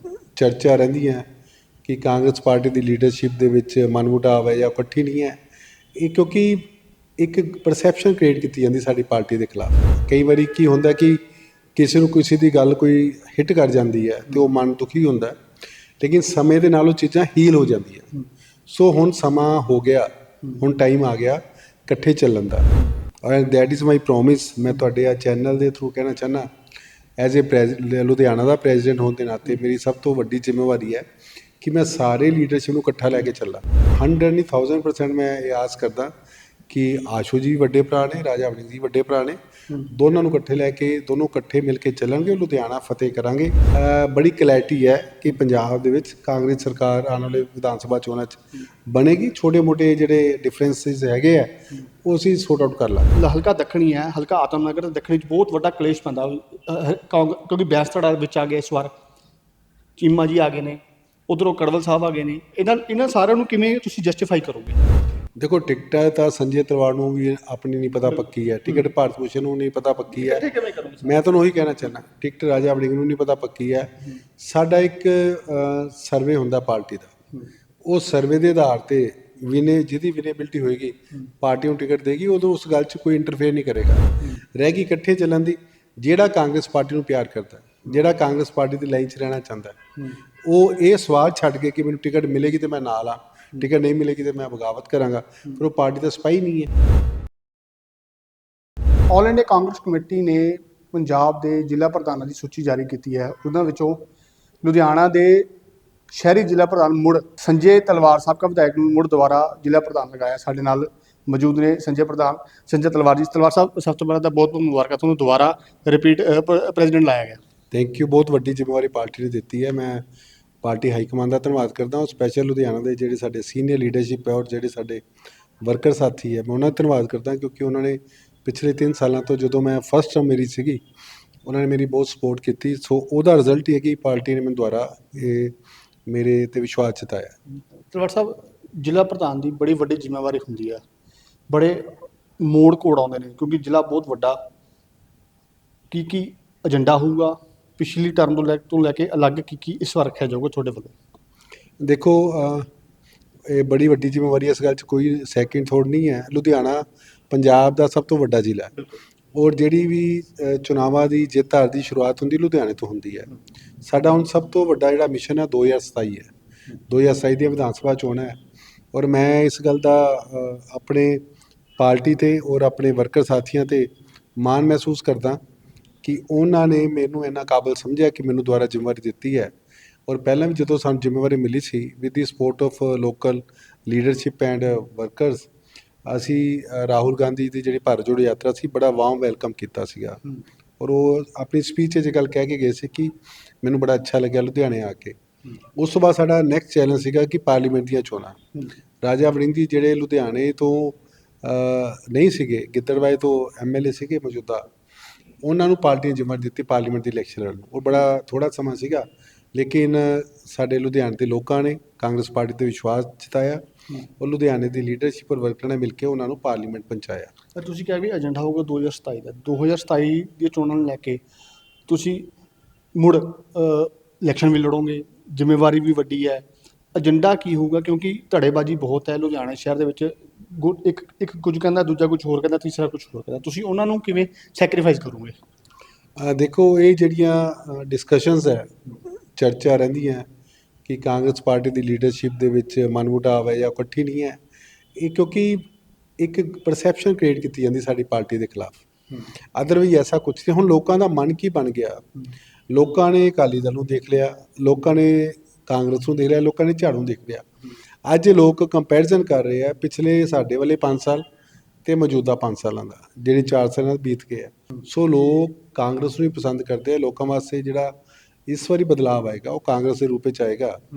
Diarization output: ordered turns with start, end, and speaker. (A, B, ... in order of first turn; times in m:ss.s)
0:00.4-0:01.2 A
0:01.8-0:05.4 A
0:06.0-0:11.2 A
0:11.7-0:15.4 A
0:16.0-0:18.1 A
0:18.7-0:22.7 A
0:23.2-0:26.5 A
0:27.2-0:31.0 A
0:31.6-0:36.1 A
0:36.7-0:53.1 A
0:53.1-0:58.9 B
1:00.0-1:04.8 B
1:05.4-1:10.4 A
1:10.1-1:11.1 B
1:11.0-1:17.1 A
1:17.8-1:29.8 A
1:30.4-1:36.7 A
1:39.1-1:44.1 B
1:44.6-1:45.5 B
1:46.1-1:57.4 B
1:57.7-2:00.0 A
2:00.6-2:05.0 A
2:05.6-2:10.8 A
2:11.4-2:15.6 A
2:16.1-2:17.4 A
2:17.9-2:20.8 B
2:21.5-2:24.4 B
2:25.9-2:30.9 B
2:31.8-2:32.7 A
2:33.5-2:38.7 A
2:39.3-2:43.3 A
2:43.8-2:46.3 A
2:46.9-2:48.4 A
2:48.9-2:51.2 A
2:51.8-2:55.4 A
2:56.0-2:59.5 A
3:00.1-3:05.5 A
3:06.0-3:10.2 A
3:10.8-3:15.2 A
3:15.8-3:18.4 A
3:19.0-3:24.6 A
3:25.4-3:33.6 A
3:34.2-3:37.3 A
3:37.5-3:41.2 B
3:41.9-3:42.3 B
3:42.9-3:55.4 B
3:56.2-3:58.8 A
3:59.4-4:00.2 A
4:00.8-4:04.4 A
4:05.0-4:08.8 A
4:09.5-4:12.1 A
4:12.7-4:17.4 A
4:18.0-4:21.2 A
4:21.8-4:27.9 A
4:28.5-4:30.8 A